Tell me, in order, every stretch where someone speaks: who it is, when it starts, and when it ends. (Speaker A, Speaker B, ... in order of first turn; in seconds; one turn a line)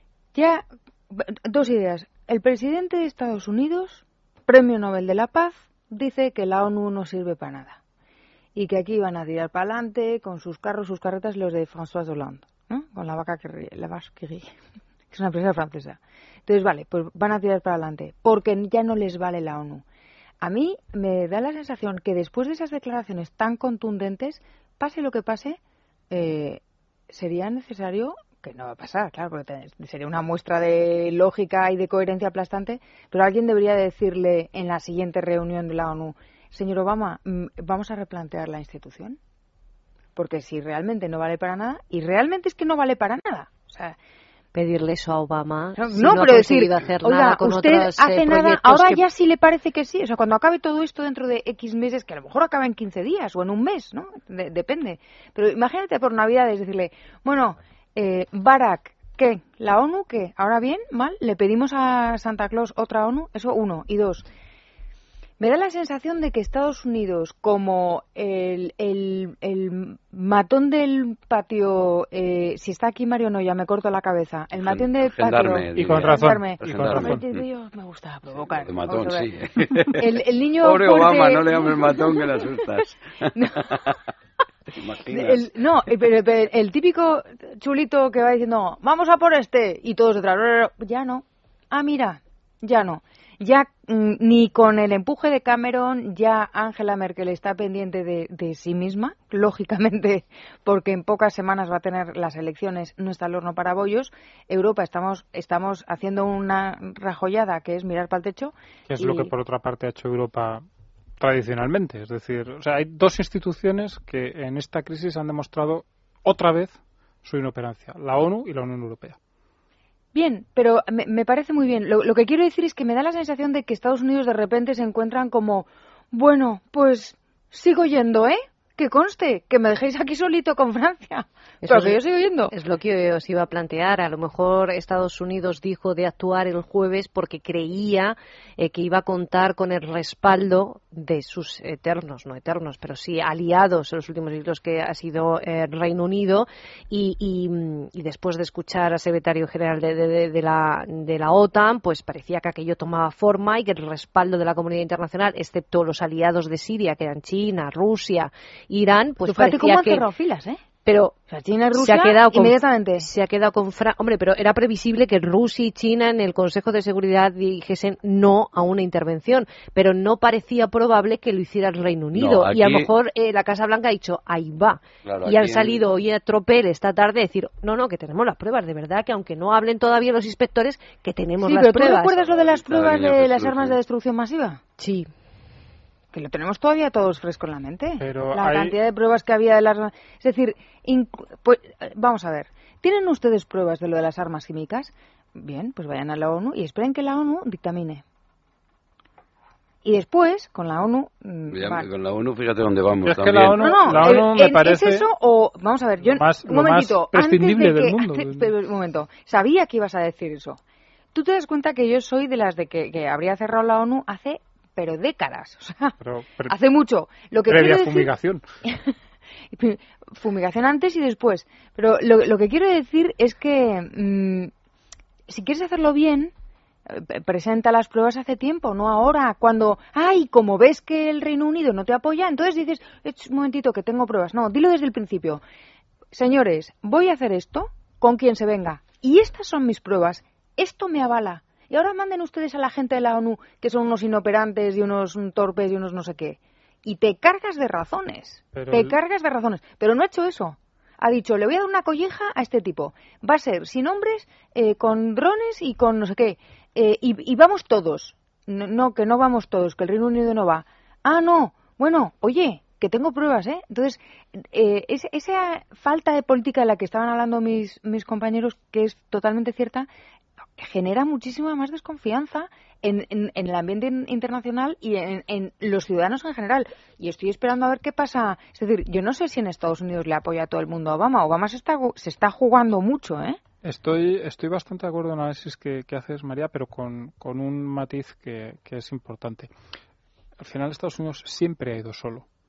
Speaker A: 0.3-7.8
Speaker A: 8.5-14.5
Speaker A: 15.1-19.8
Speaker A: 20.4-25.6
Speaker A: 26.1-39.2
Speaker A: 40.1-44.0
Speaker B: 44.5-49.0
Speaker A: 45.8-64.2
Speaker A: 65.4-79.3
Speaker C: 74.5-77.4
Speaker D: 75.7-77.2
Speaker C: 78.5-83.0
Speaker A: 79.9-82.6
Speaker A: 83.3-83.7
Speaker C: 83.5-83.9
Speaker C: 84.7-85.5
Speaker A: 85.1-109.3
Speaker D: 108.9-110.6
Speaker D: 111.2-119.2
Speaker A: 120.1-132.5
Speaker B: 131.6-160.0
Speaker A: 159.2-160.6
Speaker B: 160.8-161.2
Speaker A: 161.3-163.1
Speaker B: 161.8-182.1
Speaker C: 172.1-172.9
Speaker C: 175.0-175.8
Speaker A: 181.4-184.6
Speaker C: 182.2-183.8
Speaker B: 184.8-185.1
Speaker A: 186.1-198.0
Speaker D: 188.0-188.8
Speaker A: 199.8-201.8
Speaker C: 201.5-204.2
Speaker D: 203.0-205.1
Speaker A: 203.6-210.6
Speaker D: 206.0-208.5
Speaker A: 211.1-215.9
Speaker D: 216.0-216.5
Speaker A: 216.5-218.1
Speaker D: 217.5-218.4
Speaker A: 218.7-218.9
Speaker A: 219.5-224.5
Speaker A: 225.3-226.3
Speaker A: 226.9-235.4
Speaker A: 236.1-269.9
Speaker D: 248.5-249.0
Speaker A: 270.6-283.4
Speaker D: 283.6-289.5
Speaker D: 290.4-292.2